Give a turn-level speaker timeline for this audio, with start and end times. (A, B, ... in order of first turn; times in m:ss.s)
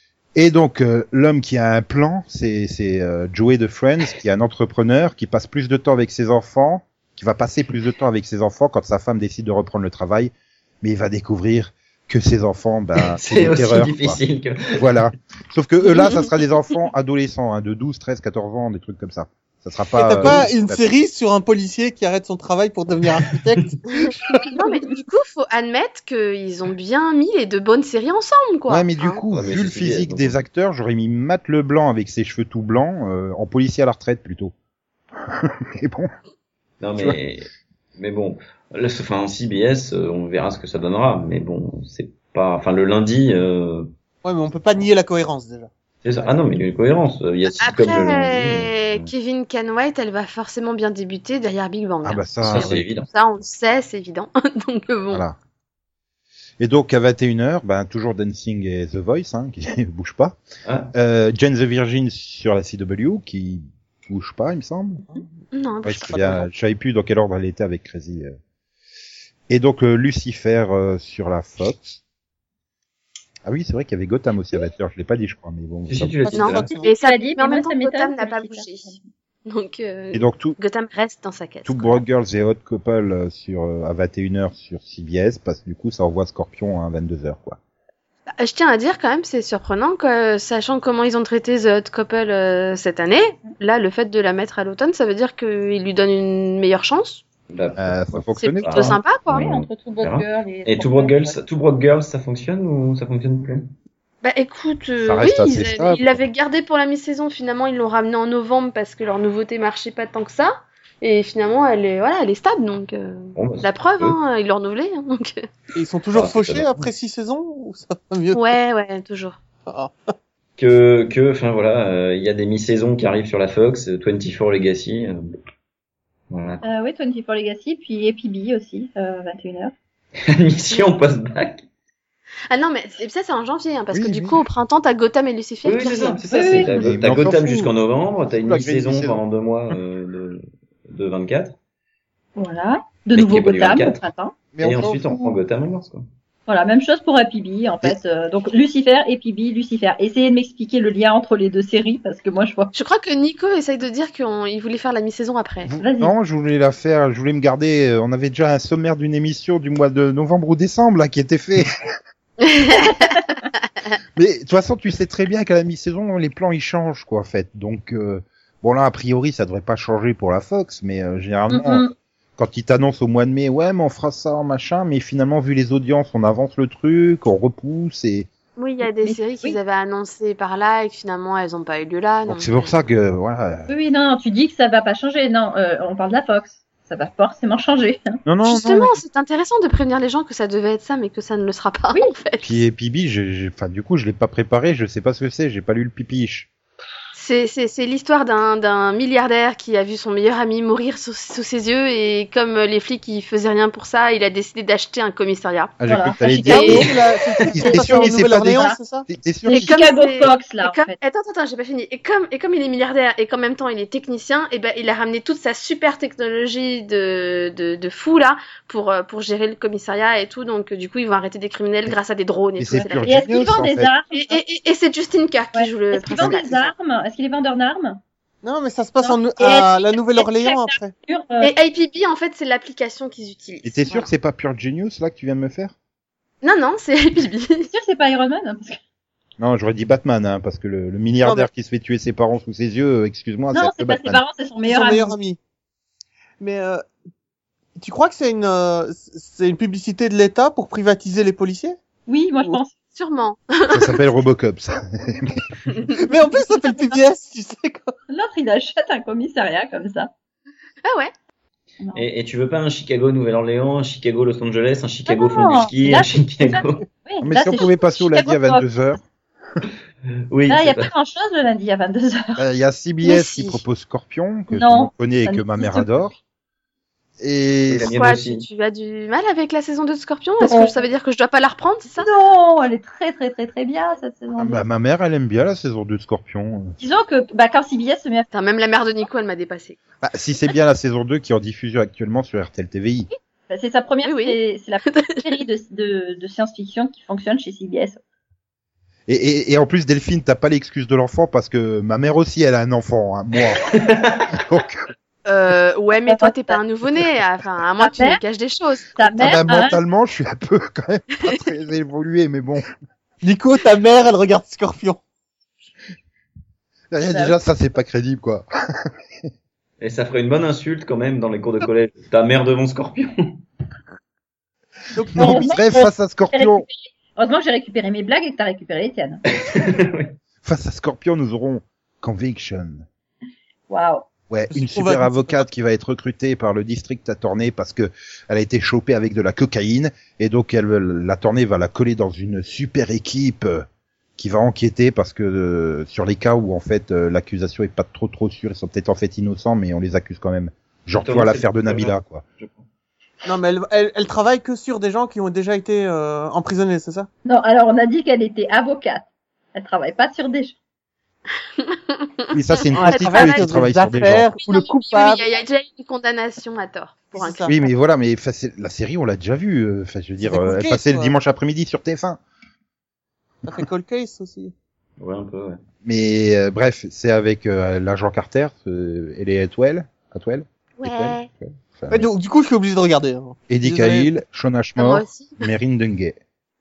0:00.4-0:14.2 A
0:13.0-0:15.1 B
0:14.8-0:20.8 A
0:19.9-0:24.5 C
0:24.4-0:29.2 D
0:28.7-0:34.5 A
0:29.3-0:30.4 B
0:35.2-0:36.1 A
0:36.8-0:43.9 B
0:44.2-0:46.3 C
0:46.0-0:49.1 B
0:47.6-0:55.2 D
0:52.0-0:52.9 A
0:52.4-0:53.1 B
0:55.1-0:55.4 A
0:56.6-1:00.4 A
1:00.6-1:00.9 B
1:00.9-1:05.0 A
1:05.5-1:06.4 D
1:05.8-1:08.3 A
1:09.5-1:12.0 A
1:13.4-1:16.6 A
1:15.9-1:16.7 B
1:16.2-1:16.9 C
1:16.3-1:18.9 D
1:16.9-1:19.0 E
1:19.4-1:22.0 D
1:20.1-1:20.6 A
1:21.6-1:27.6 A
1:28.4-1:37.2 D
1:37.5-1:43.6 B
1:37.8-1:39.0 A
1:38.4-1:39.3 D
1:39.3-1:41.4 E
1:44.2-1:55.4 D
1:45.0-1:46.1 A
1:53.4-1:54.2 B
1:55.7-1:58.4 C
1:56.1-1:56.7 B
1:58.3-1:59.4 D
1:59.6-2:00.1 C
2:00.6-2:05.3 B
2:06.3-2:06.6 B
2:06.6-2:09.7 E
2:10.2-2:11.6 B
2:12.5-2:16.2 D
2:13.9-2:14.4 A
2:15.6-2:21.6 B
2:16.3-2:16.7 E
2:16.7-2:17.7 A
2:18.4-2:19.2 A
2:22.4-2:24.3 E
2:23.1-2:24.0 B
2:24.5-2:25.0 A
2:24.6-2:26.0 B
2:25.1-2:25.4 E
2:26.5-2:32.7 E
2:32.7-2:35.7 D
2:35.6-2:41.7 A
2:35.8-2:36.1 E
2:42.4-2:43.2 D
2:42.7-2:43.4 E
2:44.2-2:51.8 A
2:51.5-2:51.9 E
2:52.4-2:58.3 A
2:58.6-3:02.7 D
2:58.9-2:59.6 E
3:02.3-3:03.7 A
3:03.7-3:08.2 E
3:08.2-3:09.0 A
3:08.4-3:12.5 D
3:12.4-3:16.5 A
3:17.1-3:25.7 D
3:25.8-3:29.8 A
3:25.8-3:26.9 E
3:26.4-3:29.1 C
3:26.5-3:27.0 D
3:27.6-3:28.8 E
3:29.5-3:31.0 E
3:29.5-3:43.2 D
3:42.6-3:43.9 A
3:43.0-3:44.4 E
3:44.1-3:46.7 D
3:45.5-3:48.0 E
3:46.2-3:46.4 A
3:48.4-3:50.9 C
3:49.0-3:51.5 E
3:51.4-3:54.1 D
3:53.6-3:55.7 A
3:56.4-3:57.7 D
3:57.7-3:58.8 E
3:59.4-4:04.2 A
4:01.2-4:01.5 C
4:03.5-4:05.2 E
4:04.6-4:05.4 C
4:06.4-4:06.8 C
4:07.8-4:11.8 C
4:12.1-4:12.7 E
4:12.9-4:14.1 D
4:13.7-4:15.4 A
4:16.0-4:17.9 C
4:18.1-4:20.1 E
4:20.8-4:21.1 D
4:21.9-4:26.8 B
4:25.1-4:28.7 E
4:27.2-4:29.0 A
4:30.3-4:30.9 B
4:30.5-4:32.4 E
4:32.4-4:36.2 A
4:33.0-4:33.6 D
4:34.5-4:35.9 E
4:37.2-4:37.9 A
4:37.7-4:38.4 B
4:37.8-4:42.1 D
4:40.4-4:40.8 E
4:42.0-4:44.6 E
4:44.4-4:46.8 A
4:46.8-4:48.3 E
4:48.3-4:49.8 D
4:50.0-4:53.1 A
4:53.5-4:58.0 E
4:54.0-4:55.2 D
4:59.1-5:03.7 A
5:03.6-5:04.4 B
5:04.3-5:04.8 A
5:05.2-5:09.4 D
5:06.1-5:06.6 E
5:07.8-5:08.2 E
5:09.0-5:09.8 E
5:09.2-5:12.6 A
5:13.2-5:15.0 C
5:16.9-5:18.9 A
5:17.1-5:17.4 E
5:19.8-5:23.4 B
5:24.9-5:25.6 C
5:25.1-5:26.6 A
5:25.1-5:29.2 E
5:29.4-5:30.1 B
5:30.4-5:32.8 A
5:33.7-5:34.0 E
5:34.3-5:43.6 A
5:34.5-5:35.4 C
5:44.2-5:52.2 A
5:50.9-5:52.6 B
5:53.2-5:57.1 C
5:57.2-6:00.6 E
6:01.6-6:03.6 D
6:02.3-6:04.3 A
6:02.7-6:05.2 C
6:04.4-6:07.7 D
6:07.1-6:07.6 C
6:07.4-6:12.2 A
6:10.2-6:11.1 C
6:13.4-6:14.5 C
6:15.0-6:15.6 B
6:15.8-6:22.1 A
6:20.8-6:21.3 D
6:21.9-6:24.1 C
6:23.5-6:26.2 A
6:24.8-6:25.5 D